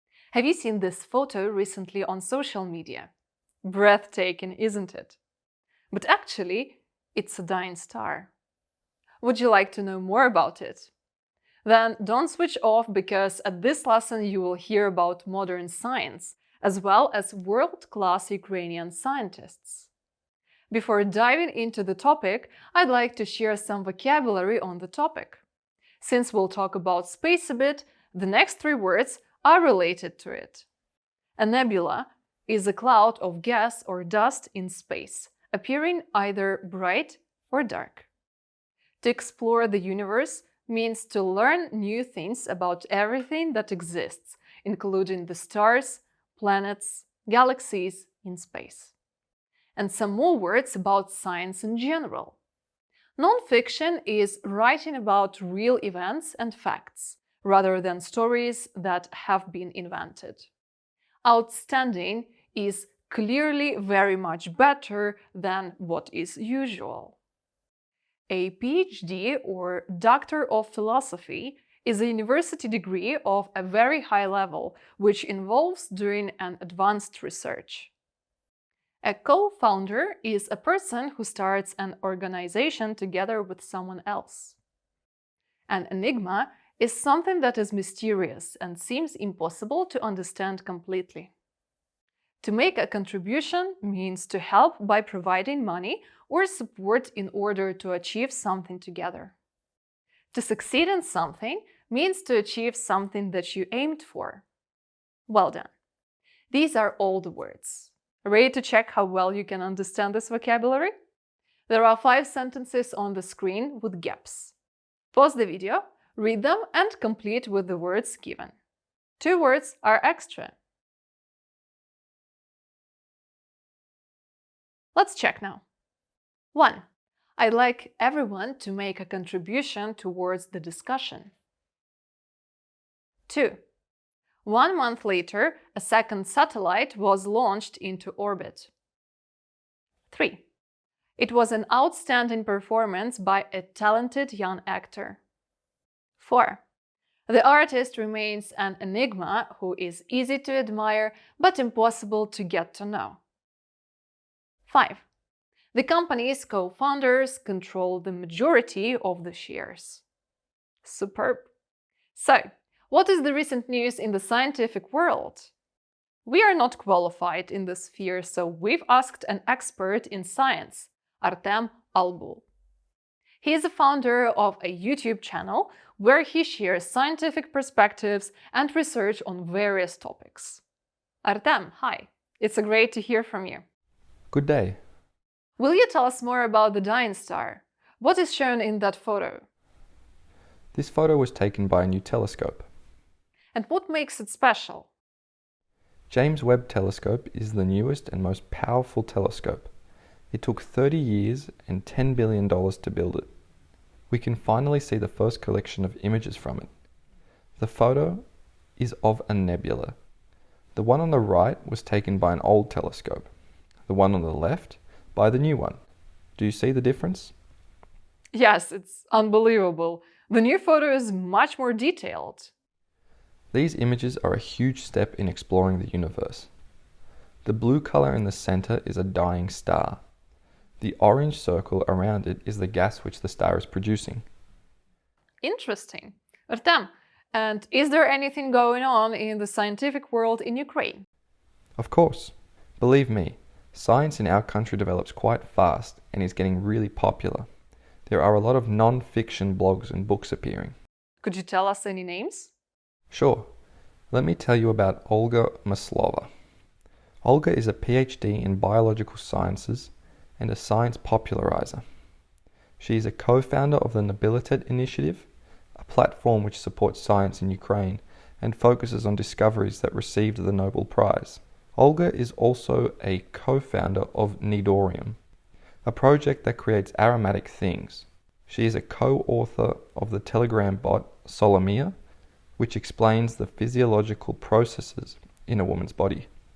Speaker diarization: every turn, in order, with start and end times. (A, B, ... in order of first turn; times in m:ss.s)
0:00.3-0:03.1 A
0:03.6-0:05.2 A
0:05.9-0:08.3 A
0:09.2-0:10.9 A
0:11.6-0:19.9 A
0:20.7-0:25.4 A
0:26.0-0:30.6 A
0:31.4-0:38.1 A
0:39.0-0:48.9 A
0:49.8-0:52.4 A
0:53.2-1:00.5 A
1:01.2-1:07.2 A
1:08.3-1:17.9 A
1:19.0-1:24.6 A
1:25.7-1:31.3 A
1:32.4-1:39.3 A
1:40.3-1:44.4 A
1:45.3-1:45.7 A
1:46.5-1:50.9 A
1:51.7-1:54.6 A
1:55.1-1:58.5 A
1:59.2-2:00.5 A
2:04.9-2:05.6 A
2:06.5-2:06.8 A
2:07.4-2:11.3 A
2:13.3-2:13.6 A
2:14.4-2:18.7 A
2:20.1-2:20.4 A
2:21.2-2:25.2 A
2:26.2-2:26.6 A
2:27.3-2:33.2 A
2:34.7-2:35.0 A
2:35.7-2:40.0 A
2:40.8-2:41.5 A
2:42.1-2:45.5 A
2:46.2-2:52.4 A
2:53.4-3:00.6 A
3:01.2-3:03.6 A
3:04.3-3:04.8 B
3:05.6-3:09.4 A
3:10.7-3:12.7 B
3:13.5-3:14.9 A
3:16.1-3:19.7 B
3:20.3-3:23.3 B
3:24.1-3:26.7 B
3:27.6-3:28.2 B
3:28.8-3:30.0 B
3:30.8-3:33.3 B
3:33.9-3:35.8 B
3:36.4-3:37.3 B
3:38.3-3:42.5 A
3:43.5-3:46.5 B
3:47.4-3:50.0 B
3:50.8-3:54.2 B
3:55.4-4:01.0 A
4:01.8-4:07.5 B
4:08.1-4:10.8 B
4:11.2-4:12.5 A
4:13.1-4:13.5 B
4:14.1-4:16.3 B
4:17.2-4:21.8 B
4:22.8-4:35.2 B
4:35.8-4:41.9 B
4:42.6-4:46.3 B